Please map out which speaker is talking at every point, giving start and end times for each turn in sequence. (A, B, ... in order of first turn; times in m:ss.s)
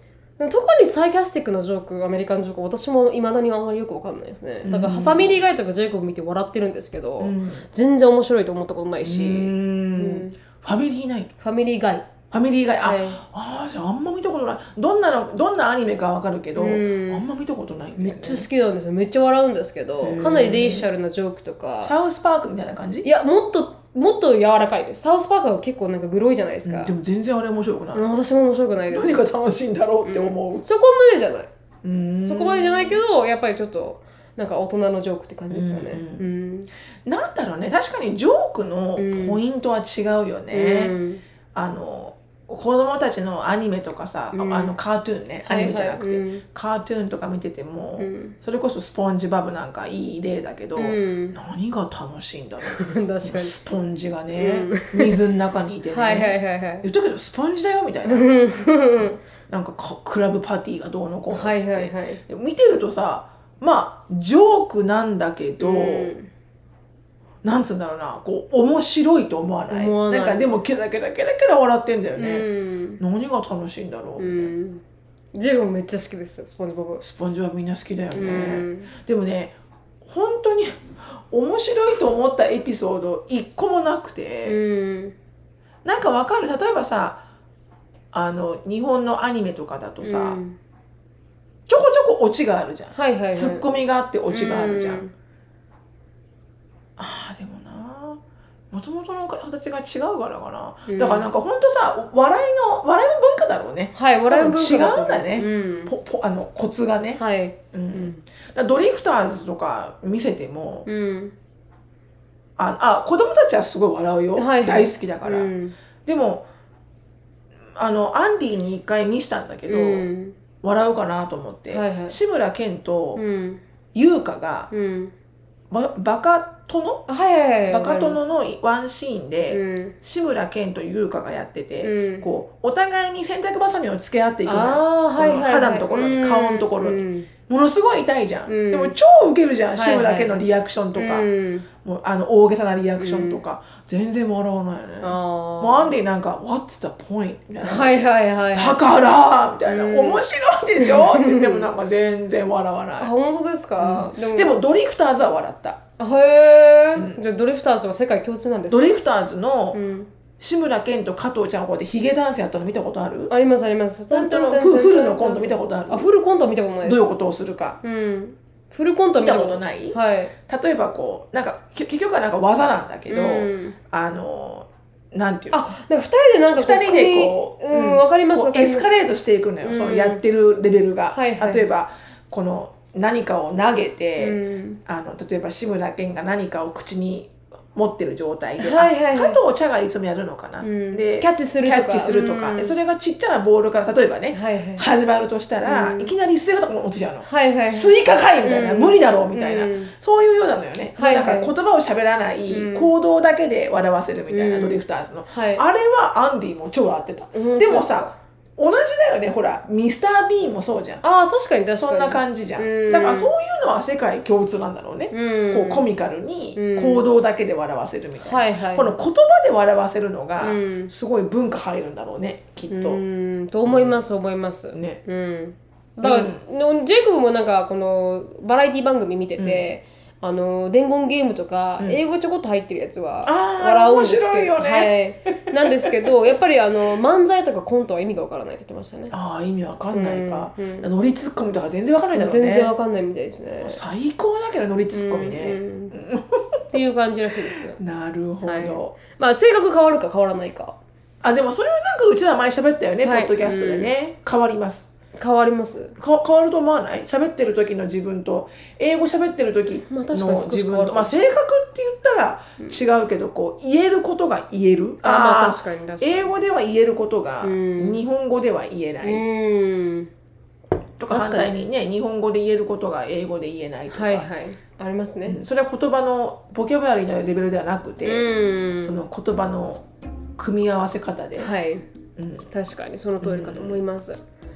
0:00.4-0:10.4 A
0:04.6-0:05.4 B
0:07.2-0:07.6 B
0:09.0-0:11.3 B
0:11.4-0:12.1 A
0:12.3-0:18.5 B
0:12.8-0:13.2 A
0:16.6-0:17.2 A
0:18.0-0:21.9 A
0:20.0-0:20.9 B
0:21.8-0:23.1 B
0:23.0-0:26.9 A
0:26.6-0:28.1 B
0:27.9-0:29.2 A
0:28.9-0:30.7 B
0:30.0-0:31.5 A
0:31.8-0:33.0 B
0:32.2-0:36.7 A
0:35.5-0:36.3 B
0:37.1-0:40.9 B
0:39.0-0:39.4 A
0:40.5-0:41.2 A
0:41.5-1:06.2 B
0:44.3-0:44.8 A
0:45.4-0:46.4 A
0:48.0-0:48.4 A
0:50.8-0:51.4 A
0:52.6-0:53.6 A
0:54.4-0:55.2 A
0:55.9-0:56.9 A
0:58.1-0:59.2 A
1:01.3-1:02.2 A
1:05.6-1:06.3 A
1:07.4-1:12.5 B
1:09.7-1:10.5 A
1:12.2-1:13.0 A
1:13.0-1:14.5 B
1:14.2-1:14.8 A
1:15.4-1:17.0 A
1:17.0-1:24.6 B
1:18.1-1:18.9 A
1:24.4-1:25.2 A
1:25.8-1:27.2 B
1:28.1-1:30.4 B
1:30.0-1:30.6 A
1:31.7-1:35.1 B
1:32.9-1:33.6 A
1:34.3-1:35.1 A
1:37.0-1:47.2 B
1:40.9-1:41.3 A
1:44.0-1:45.9 A
1:47.2-1:48.2 A
1:47.7-1:50.9 B
1:50.9-1:51.3 A
1:52.6-1:55.5 B
1:54.4-1:55.8 A
1:56.1-1:56.4 B
1:57.8-2:00.1 B
1:59.7-2:00.4 A
2:00.6-2:03.2 B
2:01.7-2:02.2 A
2:03.2-2:03.6 A
2:03.9-2:04.7 B
2:04.7-2:05.1 A
2:05.7-2:07.1 B
2:07.1-2:08.2 A
2:07.7-2:21.3 B
2:09.5-2:10.0 A
2:11.8-2:12.3 A
2:14.4-2:17.3 A
2:18.5-2:19.0 A
2:19.7-2:21.7 A
2:21.8-2:28.0 B
2:23.0-2:23.4 A
2:25.0-2:25.9 A
2:27.6-2:28.8 A
2:28.5-2:33.1 B
2:29.7-2:30.2 A
2:30.8-2:31.7 A
2:33.0-2:34.5 A
2:33.8-2:35.8 B
2:36.0-2:38.9 A
2:37.0-2:37.2 B
2:38.7-2:39.8 B
2:39.7-2:40.1 A
2:40.4-2:43.3 B
2:43.3-2:47.1 A
2:44.1-2:46.1 B
2:46.8-2:47.8 B
2:47.8-2:50.3 A
2:49.2-2:55.7 B
2:53.1-2:53.8 A
2:55.5-2:58.9 A
2:56.6-3:31.0 B
2:59.6-3:00.2 A
3:01.1-3:01.7 A
3:04.2-3:04.8 A
3:08.6-3:09.4 A
3:10.6-3:12.7 A
3:14.3-3:14.9 A
3:15.6-3:16.1 A
3:17.2-3:19.9 A
3:21.0-3:21.5 A
3:22.5-3:22.9 A
3:24.3-3:25.6 A
3:27.3-3:28.1 A
3:31.0-3:33.3 A
3:31.8-3:43.0 B
3:35.1-3:35.8 A
3:36.6-3:37.0 A
3:38.2-3:38.9 A
3:40.4-3:40.9 A
3:42.7-3:59.1 A
3:43.7-3:44.0 B
3:44.7-3:45.0 B
3:46.0-3:46.4 B
3:49.4-3:49.7 B
3:53.2-3:56.3 B
3:59.1-4:02.7 B
3:59.9-4:00.9 A
4:02.2-4:03.8 A
4:03.6-4:06.6 B
4:04.9-4:06.0 A
4:06.7-4:07.8 A
4:07.8-4:09.0 B
4:08.4-4:10.8 A
4:11.2-4:14.9 B
4:13.0-4:13.9 A
4:15.2-4:16.0 A
4:16.0-4:29.2 B
4:19.9-4:21.3 A
4:25.0-4:26.3 A
4:27.4-4:28.0 A
4:29.0-4:30.1 A
4:31.0-4:34.3 B
4:31.1-4:31.5 A
4:33.9-4:35.4 A
4:35.3-4:38.3 B
4:38.0-4:39.0 A
4:38.8-4:39.9 B
4:40.4-4:41.5 B
4:41.4-4:41.8 A
4:42.2-4:42.5 B
4:42.5-4:44.2 A
4:43.2-4:43.8 B